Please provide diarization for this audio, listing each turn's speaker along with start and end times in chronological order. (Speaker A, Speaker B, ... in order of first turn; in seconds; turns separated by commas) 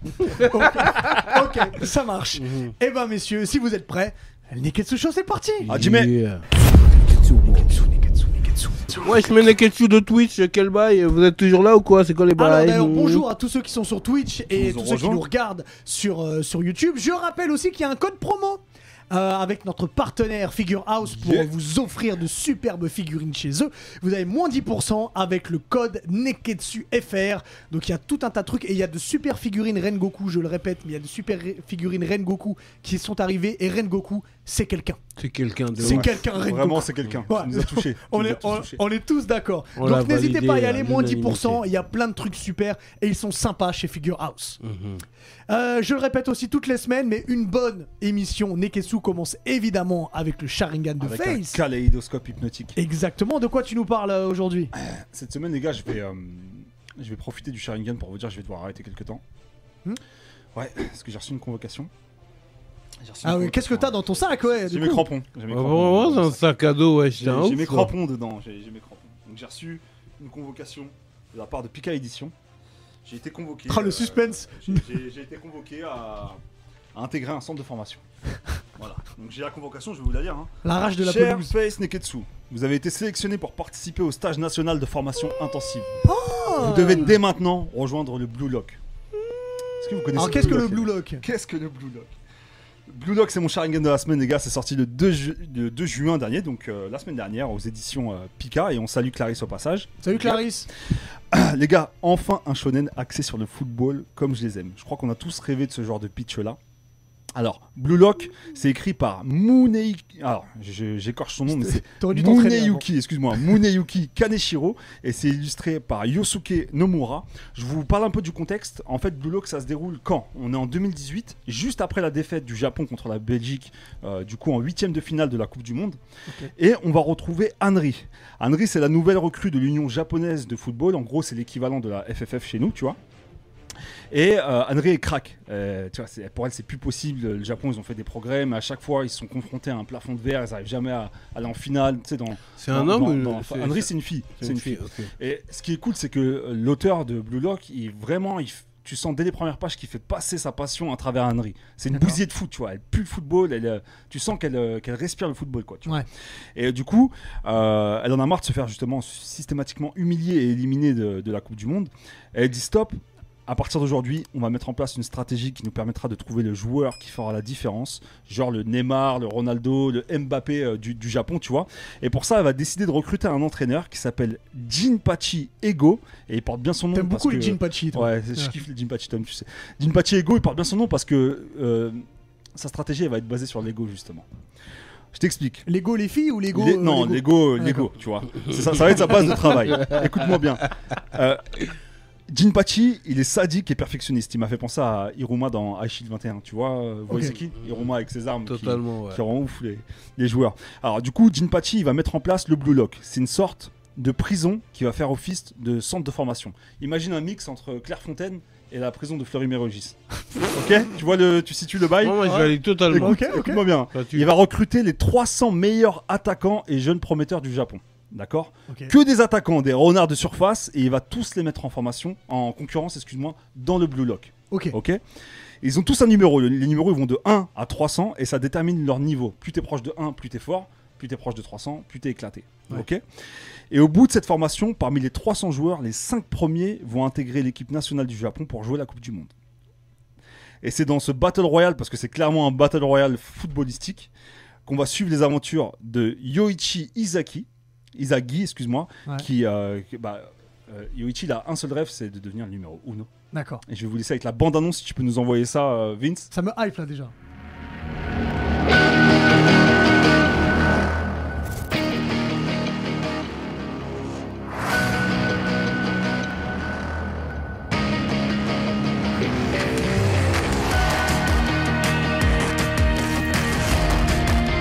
Speaker A: 0.1-1.3, Speaker B: 0.2-5.7, Speaker A: 2.4-2.7, Speaker A: 5.6-6.5, Speaker C: 5.7-6.1, Speaker B: 7.4-9.2, Speaker A: 9.0-13.2, Speaker B: 12.4-35.0, Speaker C: 14.5-15.2, Speaker C: 21.1-21.5, Speaker A: 35.2-36.3, Speaker C: 35.8-38.8, Speaker B: 35.8-44.6, Speaker A: 39.8-41.6, Speaker A: 44.6-45.0, Speaker B: 45.5-51.6, Speaker C: 51.0-52.8, Speaker B: 52.8-54.7, Speaker C: 54.7-59.2, Speaker C: 60.5-61.9, Speaker C: 63.0-66.6, Speaker B: 63.2-65.1, Speaker A: 65.5-67.9, Speaker C: 67.1-72.3, Speaker C: 73.0-76.4, Speaker B: 73.7-74.8, Speaker C: 76.9-78.0, Speaker C: 78.8-85.9, Speaker B: 80.6-81.5, Speaker B: 86.0-87.2, Speaker C: 86.5-88.8, Speaker C: 89.8-92.1, Speaker B: 90.1-91.2, Speaker C: 92.9-100.4, Speaker B: 100.0-100.7, Speaker C: 101.3-106.6, Speaker C: 107.3-126.0, Speaker B: 111.5-112.9, Speaker C: 126.5-133.0, Speaker C: 134.1-156.1, Speaker A: 142.6-145.1, Speaker C: 156.6-182.0, Speaker B: 176.9-178.5, Speaker C: 182.6-184.3, Speaker C: 185.1-185.7, Speaker B: 185.7-187.9, Speaker C: 186.5-191.4, Speaker A: 189.7-190.0, Speaker C: 192.3-210.0, Speaker B: 197.1-197.3, Speaker A: 198.5-199.2, Speaker C: 210.5-225.0, Speaker A: 212.0-213.3, Speaker B: 212.2-213.6, Speaker A: 213.9-214.3, Speaker B: 224.5-224.8, Speaker C: 225.6-233.0, Speaker C: 233.7-239.3, Speaker C: 240.6-244.1, Speaker C: 244.7-253.1, Speaker B: 253.3-253.6, Speaker C: 253.7-256.3, Speaker B: 256.3-257.1